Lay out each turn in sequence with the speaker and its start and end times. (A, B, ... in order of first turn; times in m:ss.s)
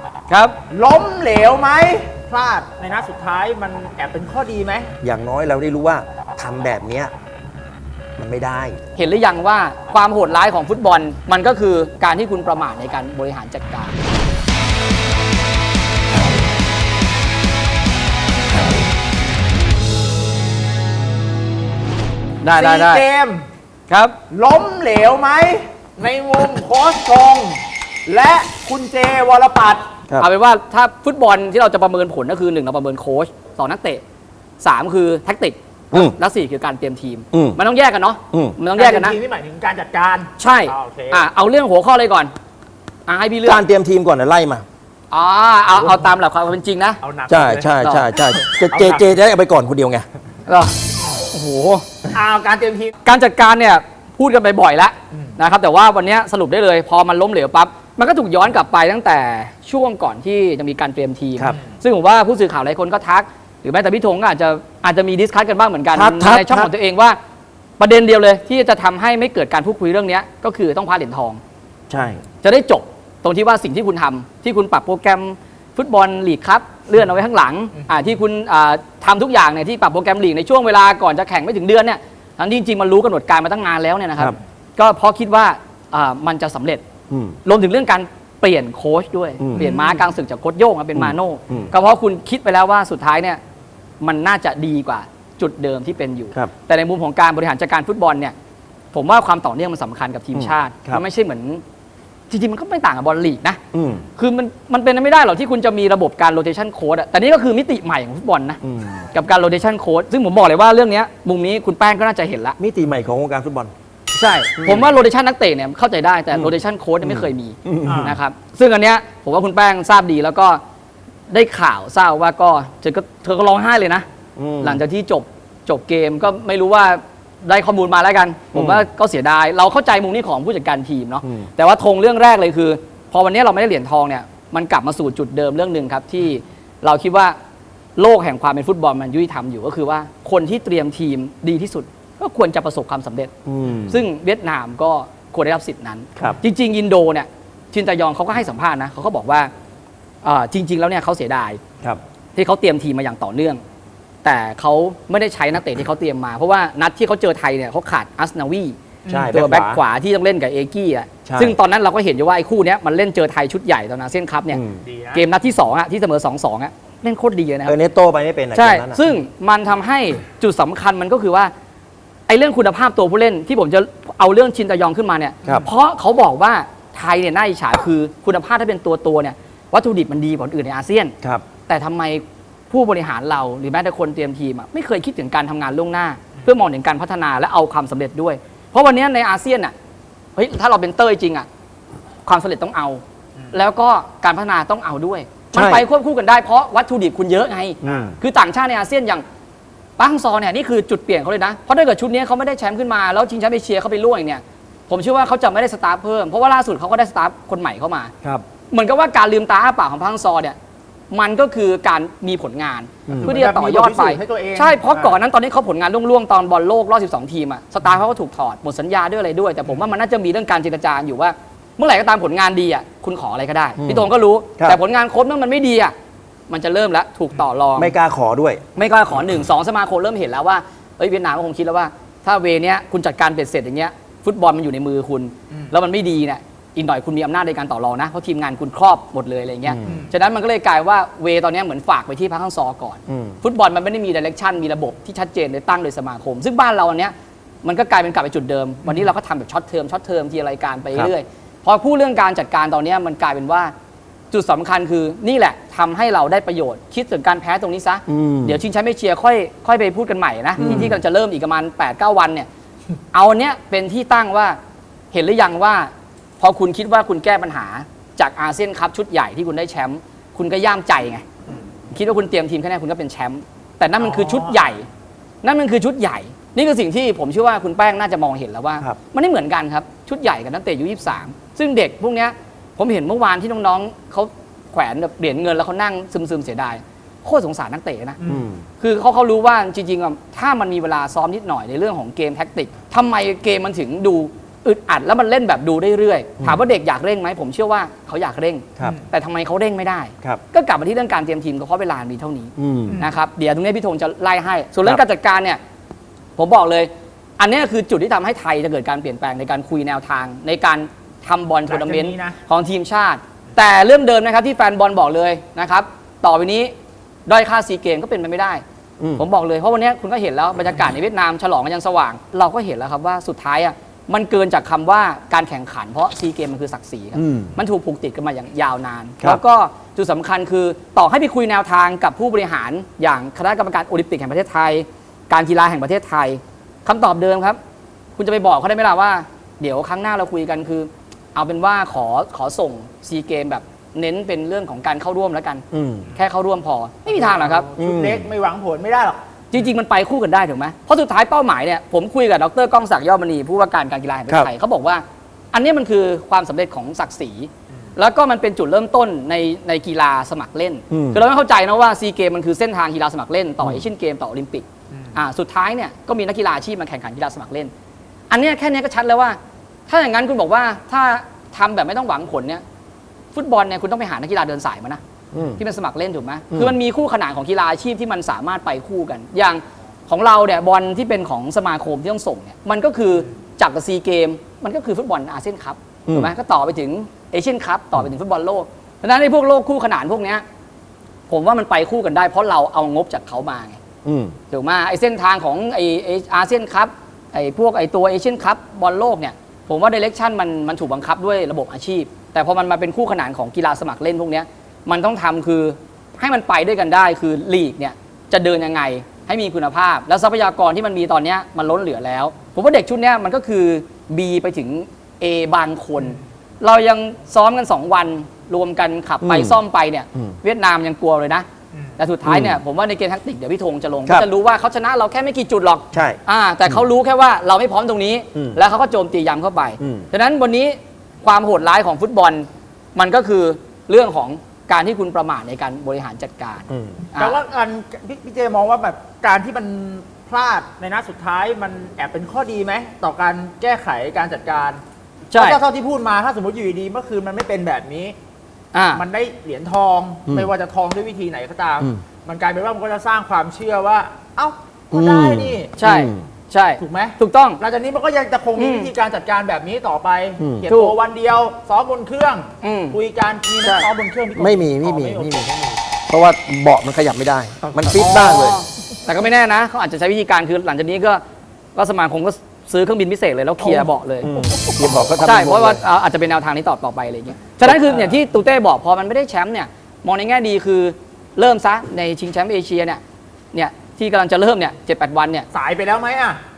0:00.3-0:00.6 A
0:00.7-0:04.9 B
0:05.0-0:07.1 C
0:08.2-0:08.8 C
0:09.0-0:14.0 A
0:22.4-0:23.0 A
0:22.6-0:23.4 B
0:23.9-0:24.1 A
0:24.3-0:29.9 B
0:30.2-0:34.0 A
0:34.6-0:39.2 A
0:37.3-0:37.6 C
0:38.3-0:38.6 C
0:38.7-0:41.2 B
0:40.4-0:42.3 A
0:43.1-0:43.6 A
0:43.4-0:44.6 C
0:45.1-0:47.0 A
0:47.0-0:47.8 B
0:47.3-0:50.0 C
0:47.8-0:48.1 A
0:48.5-0:49.0 B
0:50.5-0:51.8 A
0:52.1-0:52.9 B
0:53.0-1:07.2 A
1:05.9-1:06.7 C
1:07.8-1:11.4 A
1:11.9-1:12.2 C
1:12.4-1:26.8 A
1:27.1-1:27.4 C
1:27.4-1:33.4 A
1:29.4-1:29.7 C
1:29.6-1:30.0 B
1:31.0-1:31.7 C
1:34.0-1:38.3 A
1:38.9-1:41.6 A
1:40.3-1:41.0 C
1:42.3-1:43.6 A
1:43.7-1:44.0 C
1:44.2-1:48.6 A
1:48.6-1:49.1 C
1:49.1-1:52.6 A
1:52.6-1:53.7 C
1:54.1-2:00.6 A
1:54.6-1:54.9 C
1:56.3-1:58.2 C
1:57.9-1:58.2 B
2:01.3-2:04.0 A
2:04.4-2:04.8 C
2:04.6-2:17.3 A
2:08.5-2:08.8 C
2:11.2-2:11.5 C
2:18.0-2:23.3 A
2:23.5-2:24.0 C
2:23.9-2:29.5 A
2:30.2-2:31.6 A
2:32.4-2:33.6 A
2:34.2-2:38.8 A
2:39.1-2:39.3 B
2:39.1-2:39.8 C
2:39.3-2:44.6 A
2:41.3-2:41.6 C
2:44.5-2:44.8 C
2:44.8-2:45.2 B
2:45.1-2:47.8 A
2:47.7-2:49.0 C
2:48.5-2:51.5 A
2:52.3-3:01.1 A
3:01.7-3:09.7 A
3:10.4-3:11.5 A
3:12.2-3:19.2 A
3:15.5-3:15.8 C
3:17.8-3:18.2 C
3:20.0-3:28.1 A
3:28.7-3:30.6 A
3:31.1-3:45.9 A
3:33.1-3:33.4 C
3:33.1-3:35.2 B
3:43.8-3:44.8 C
3:46.5-3:47.9 A
3:47.8-3:48.6 C
3:48.8-4:13.7 A
3:59.7-4:00.1 C
3:59.8-4:00.1 B
4:03.1-4:03.4 C
4:14.3-4:22.5 A
4:18.1-4:18.6 C
4:20.6-4:21.0 C
4:23.1-4:24.6 A
4:25.1-4:31.2 A
4:31.9-4:34.9 A
4:34.0-4:34.6 B
4:35.4-4:48.2 A
4:48.2-4:48.5 B
4:48.2-4:48.6 C
4:48.8-5:05.6 A
5:02.6-5:03.0 C
5:06.4-5:16.7 A
5:11.7-5:12.4 B
5:17.2-5:18.6 A
5:19.0-5:19.2 C
5:19.2-5:37.6 A
5:27.1-5:27.6 C
5:38.2-5:47.7 A
5:45.7-5:46.1 C
5:47.1-5:49.2 B
5:47.8-5:48.3 C
5:49.5-6:07.7 A
6:00.9-6:01.2 C
6:04.9-6:05.2 B
6:08.3-6:12.6 A
6:13.3-6:15.0 A
6:15.3-6:15.6 C
6:15.6-6:30.4 A
6:26.1-6:26.3 C
6:31.3-6:33.8 A
6:34.0-6:34.4 C
6:34.5-7:01.4 A
6:59.2-6:59.6 C
7:02.0-7:17.4 A
7:02.2-7:02.6 C
7:05.9-7:06.8 C
7:09.8-7:10.1 C
7:16.7-7:17.1 C
7:17.2-7:24.8 B
7:25.3-7:25.6 A
7:25.4-7:28.2 B
7:28.7-7:29.0 A
7:28.9-7:35.7 B
7:34.9-7:36.2 C
7:35.8-7:37.6 A
7:36.8-7:45.8 B
7:38.6-7:38.9 A
7:40.4-7:40.6 C
7:40.7-7:40.9 A
7:42.6-7:43.0 A
7:44.4-7:45.5 C
7:46.1-7:48.6 C
7:47.9-7:51.2 A
7:51.8-7:54.3 A
7:53.6-7:55.8 C
7:55.2-8:03.0 A
8:03.5-8:05.5 A
8:05.5-8:06.4 B